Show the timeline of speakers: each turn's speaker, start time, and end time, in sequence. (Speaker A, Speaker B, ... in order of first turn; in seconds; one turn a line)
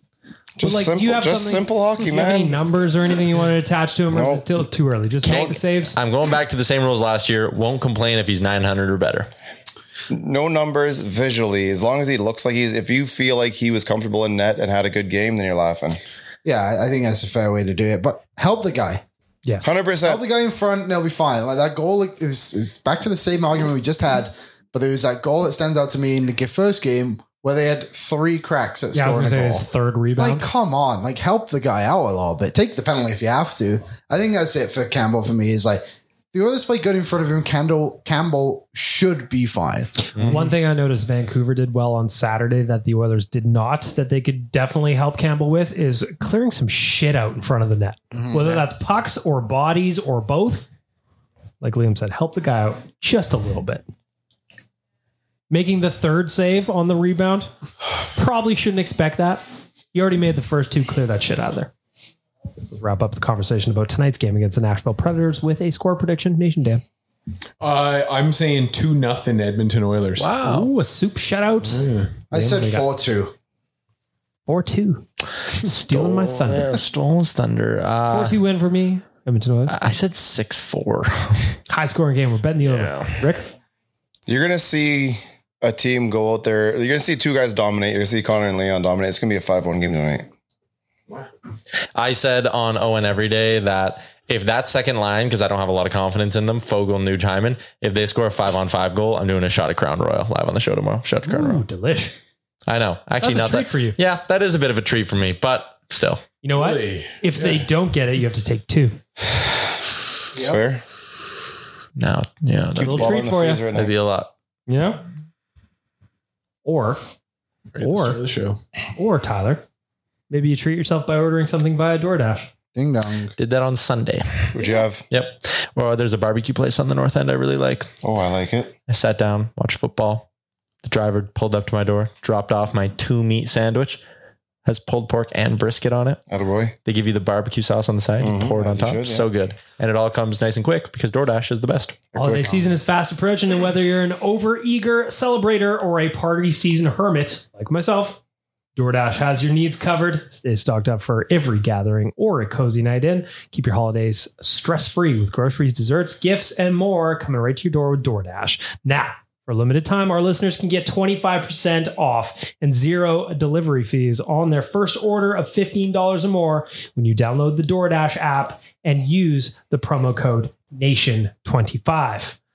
Speaker A: 0.6-2.7
Speaker B: 0.6-5.9
Speaker A: 4.1-4.5
Speaker C: 5.2-9.3
Speaker A: 10.1-16.0
Speaker D: 16.4-19.0
Speaker A: 19.6-20.2
Speaker D: 20.0-39.9
Speaker B: 28.9-30.4
Speaker B: 40.1-50.7
Speaker D: 48.1-48.6
Speaker B: 51.6-53.9
Speaker B: 55.5-57.5
Speaker B: 58.1-61.7
Speaker B: 62.7-66.8
Speaker E: 67.6-70.4
Speaker C: 70.2-70.7
Speaker B: 70.4-72.9
Speaker E: 71.7-72.2
Speaker D: 72.3-73.3
Speaker B: 74.5-76.7
Speaker C: 75.6-78.4
Speaker B: 78.1-79.7
Speaker C: 79.7-81.6
Speaker B: 81.7-83.5
Speaker C: 82.7-83.2
Speaker A: 84.3-90.3
Speaker C: 92.0-101.6
Speaker B: 101.3-102.2
Speaker C: 102.7-106.2
Speaker B: 103.2-104.0
Speaker B: 106.4-109.0
Speaker E: 106.5-107.7
Speaker D: 110.3-110.6
Speaker A: 110.3-110.8
Speaker C: 112.0-114.3
Speaker A: 112.8-113.9
Speaker B: 112.8-113.6
Speaker B: 114.7-115.0
Speaker B: 116.7-117.0
Speaker E: 117.7-118.6
Speaker B: 117.8-118.2
Speaker B: 119.0-119.6
Speaker B: 120.3-122.5
Speaker D: 122.8-123.4
Speaker C: 123.4-124.5
Speaker A: 124.5-125.0
Speaker C: 125.1-127.9
Speaker A: 128.0-128.7
Speaker C: 128.9-130.3
Speaker C: 130.8-134.0
Speaker C: 134.7-136.2
Speaker A: 136.3-136.8
Speaker C: 136.8-142.0
Speaker A: 138.2-139.3
Speaker A: 142.1-142.7
Speaker B: 142.2-148.2
Speaker B: 148.8-172.4